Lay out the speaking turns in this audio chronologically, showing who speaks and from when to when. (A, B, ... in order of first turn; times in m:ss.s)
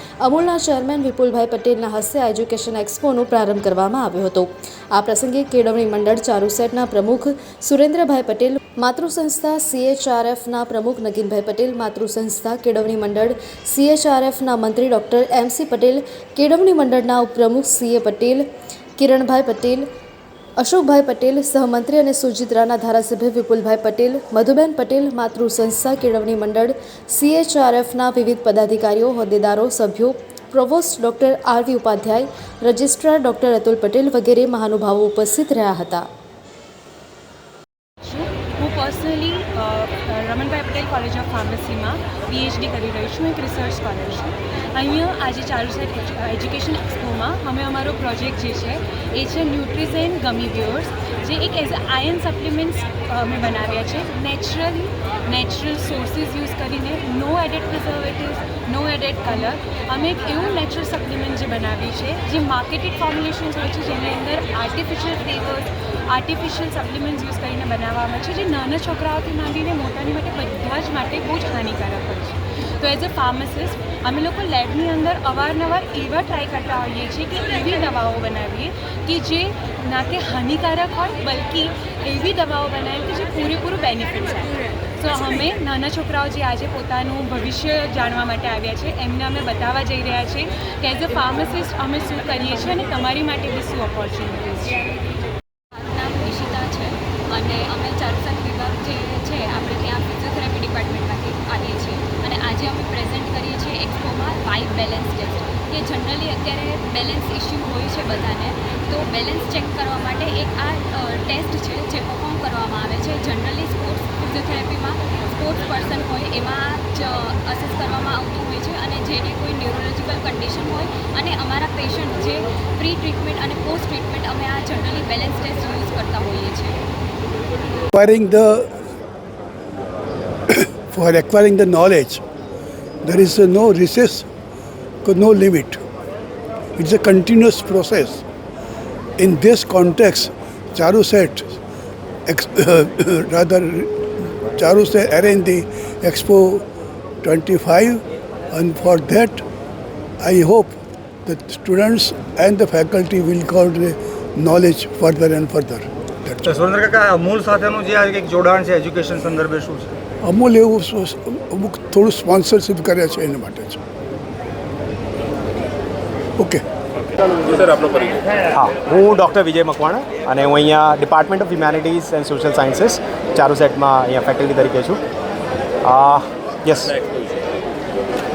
0:00.2-0:18.4 A
0:19.0-0:19.9 A
0:20.6-0:36.1 A
0:38.0-1:34.8 B
1:35.7-2:06.8 C
2:07.9-2:08.7 D
2:10.5-2:12.2 D
2:13.0-2:14.3 D
2:15.0-2:15.8 D
2:16.8-2:18.2 D
2:19.2-2:21.5 D
2:22.2-2:23.9 D
2:24.5-2:26.6 D
2:27.2-2:28.0 D
2:28.5-2:29.4 D
2:30.2-2:36.4 D
2:36.4-2:39.9 E
2:40.2-2:43.8 D
2:48.5-2:55.0 F
2:55.8-2:57.0 F